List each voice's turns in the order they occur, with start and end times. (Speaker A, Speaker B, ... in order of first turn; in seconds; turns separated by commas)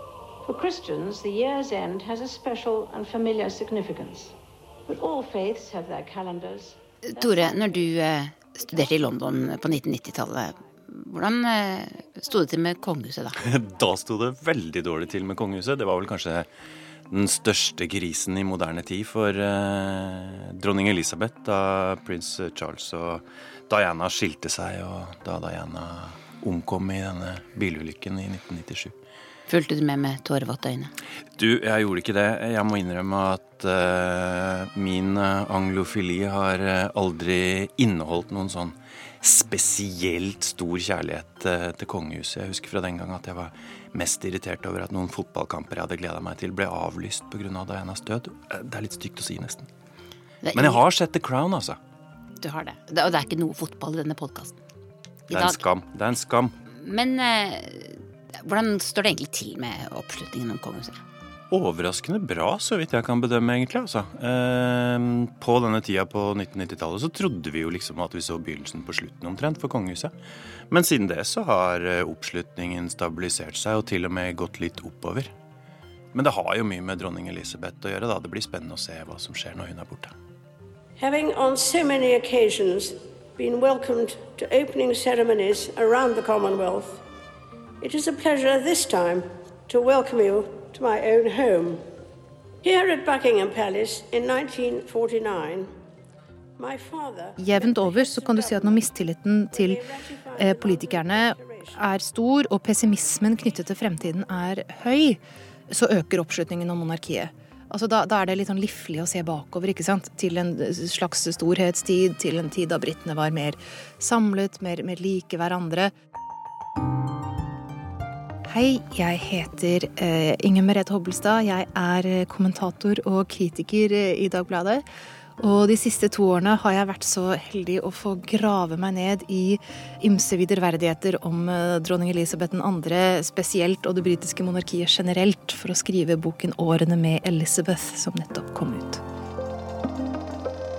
Speaker A: 0.4-4.3, Speaker A: 4.9-7.6, Speaker B: 7.1-13.3, Speaker C: 13.4-16.5, Speaker C: 17.1-28.9, Speaker B: 29.5-30.9, Speaker C: 31.4-49.7, Speaker B: 50.4-50.8, Speaker C: 50.5-51.8, Speaker B: 52.4-54.6, Speaker B: 55.3-55.6, Speaker C: 55.3-56.5, Speaker B: 56.8-61.0, Speaker C: 61.5-70.1, Speaker C: 70.7-75.3, Speaker C: 76.1-80.1, Speaker D: 81.0-87.0, Speaker D: 87.8-91.8, Speaker D: 92.6-95.7, Speaker D: 96.6-98.9, Speaker E: 97.4-99.8, Speaker D: 99.5-101.8, Speaker E: 100.4-115.9, Speaker E: 118.5-124.8, Speaker E: 125.4-139.0